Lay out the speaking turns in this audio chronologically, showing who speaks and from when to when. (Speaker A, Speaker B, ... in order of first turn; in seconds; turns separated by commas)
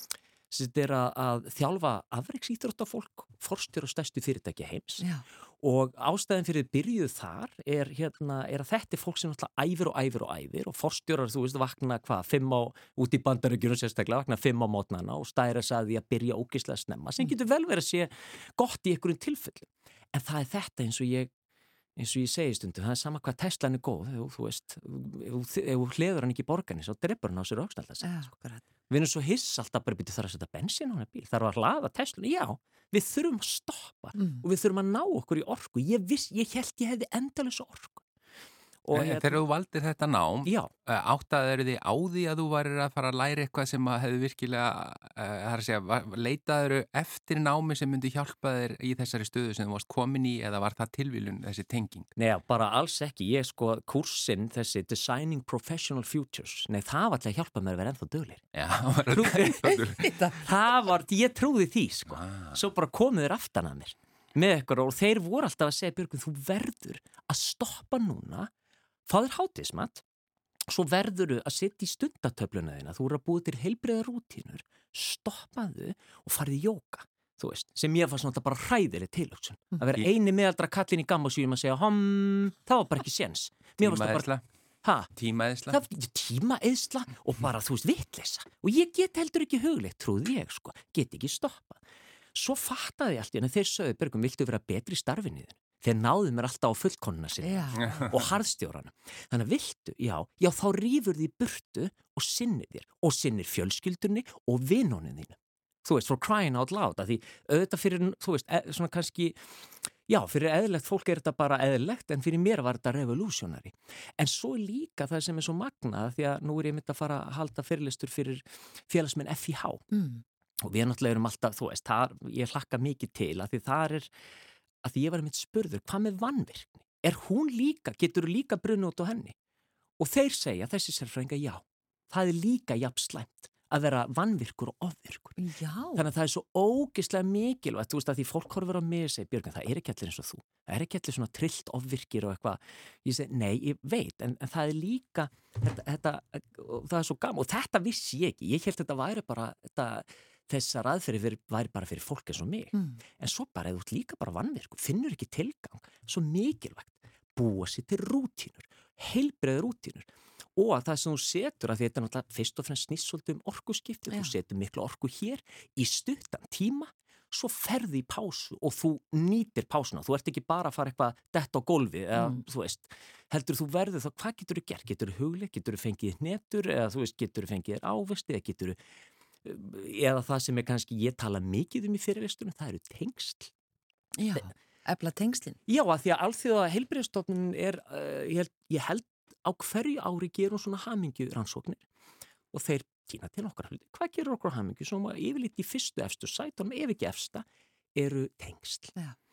Speaker A: 0.5-21.3, Speaker A: 22.0-28.3, Speaker B: 28.0-28.6, Speaker A: 28.9-38.0, Speaker A: 38.8-39.4, Speaker C: 38.9-52.1, Speaker A: 52.2-58.5, Speaker C: 58.5-60.1, Speaker A: 59.2-59.5, Speaker B: 59.6-60.4, Speaker A: 60.4-68.5, Speaker C: 62.1-62.6, Speaker A: 69.1-70.0, Speaker A: 70.7-84.3, Speaker C: 83.8-84.4, Speaker A: 84.8-85.1, Speaker C: 85.1-85.8, Speaker A: 85.7-91.8, Speaker A: 92.3-109.4, Speaker B: 97.4-97.9, Speaker C: 97.7-98.3, Speaker A: 110.1-119.8, Speaker B: 119.9-120.2, Speaker A: 120.6-124.1, Speaker A: 124.8-129.3, Speaker A: 130.0-135.4, Speaker B: 135.4-136.0, Speaker A: 135.9-178.8, Speaker A: 179.4-183.5, Speaker B: 184.2-185.6, Speaker A: 185.7-191.8, Speaker A: 192.5-197.4, Speaker A: 197.9-198.9